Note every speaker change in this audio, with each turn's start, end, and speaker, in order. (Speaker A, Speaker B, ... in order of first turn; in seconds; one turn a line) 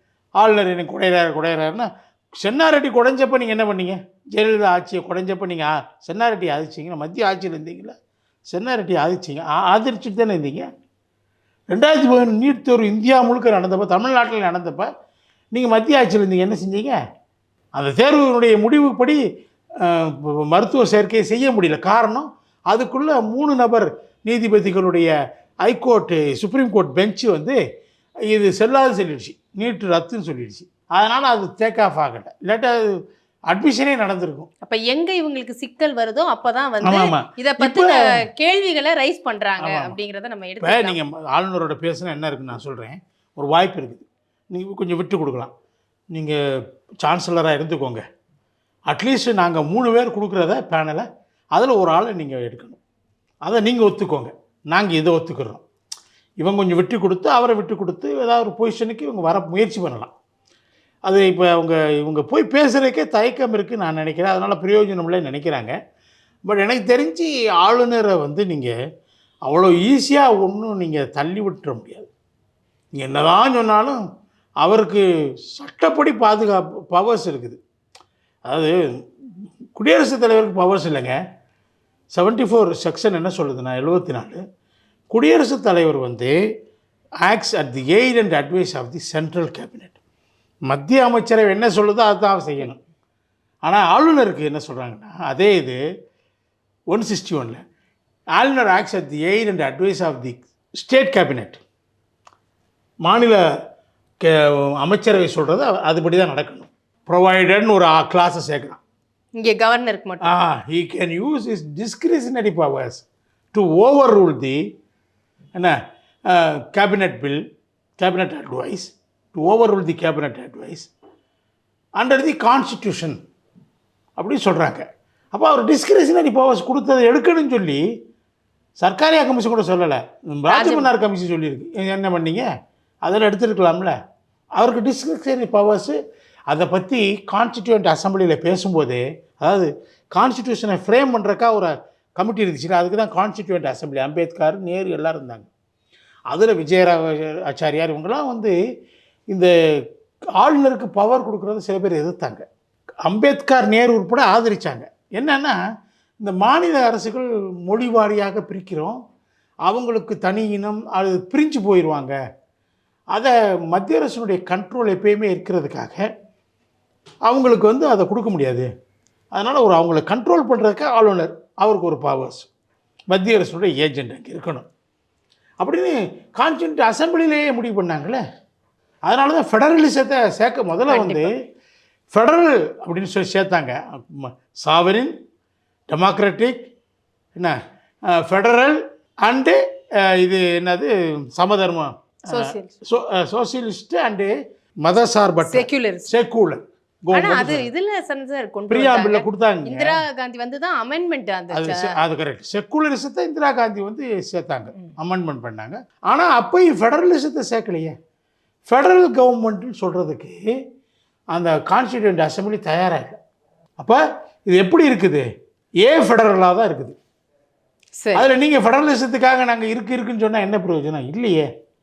Speaker A: 0.4-7.9
Speaker A: 8.5-10.7
Speaker A: 11.7-14.9
Speaker A: 15.5-17.0
Speaker A: 17.8-19.2
Speaker A: 19.8-25.1
Speaker A: 25.6-27.6
Speaker A: 28.3-32.9
Speaker A: 33.5-34.5
Speaker B: 34.6-41.0
Speaker A: 36.8-37.9
Speaker A: 39.6-40.0
Speaker A: 40.6-45.5
Speaker A: 46.1-46.4
Speaker A: 47.0-48.0
Speaker A: 48.9-52.8
Speaker A: 53.5-55.6
Speaker A: 56.4-60.1
Speaker A: 61.1-65.7
Speaker A: 66.5-68.7
Speaker A: 69.5-72.1
Speaker A: 73.0-74.0
Speaker A: 74.6-77.6
Speaker A: 78.5-78.9
Speaker A: 79.8-81.2
Speaker A: 82.1-84.4
Speaker A: 85.1-86.3
Speaker A: 87.2-90.0
Speaker A: 90.7-92.8
Speaker A: 93.6-95.8
Speaker A: 96.9-97.6
Speaker A: 98.3-101.6
Speaker A: 103.0-103.4
Speaker A: 104.2-108.8
Speaker B: 109.4-110.3
Speaker A: 110.2-114.6
Speaker A: 116.3-117.4
Speaker A: 118.0-120.9
Speaker A: 122.0-123.2
Speaker A: 124.2-127.8
Speaker A: 128.8-132.5
Speaker B: 130.5-130.9
Speaker A: 133.0-133.9
Speaker A: 134.6-136.0
Speaker A: 136.5-145.5
Speaker A: 146.3-148.6
Speaker A: 150.4-152.4
Speaker A: 153.0-155.6
Speaker A: 156.2-159.0
Speaker A: 159.7-162.2
Speaker A: 163.1-166.1
Speaker A: 167.2-168.7
Speaker A: 169.3-172.5
Speaker A: 173.1-174.7
Speaker A: 175.6-178.2
Speaker A: 179.1-181.4
Speaker B: 180.9-181.3
Speaker A: 182.1-185.1
Speaker A: 185.9-186.6
Speaker A: 188.1-197.7
Speaker B: 192.3-192.7
Speaker B: 195.4-196.1
Speaker B: 197.1-201.9
Speaker A: 198.7-200.0
Speaker A: 201.5-207.9
Speaker A: 208.7-210.4
Speaker A: 211.3-213.2
Speaker A: 213.8-215.2
Speaker A: 215.8-216.9
Speaker B: 218.0-218.3
Speaker A: 218.1-221.5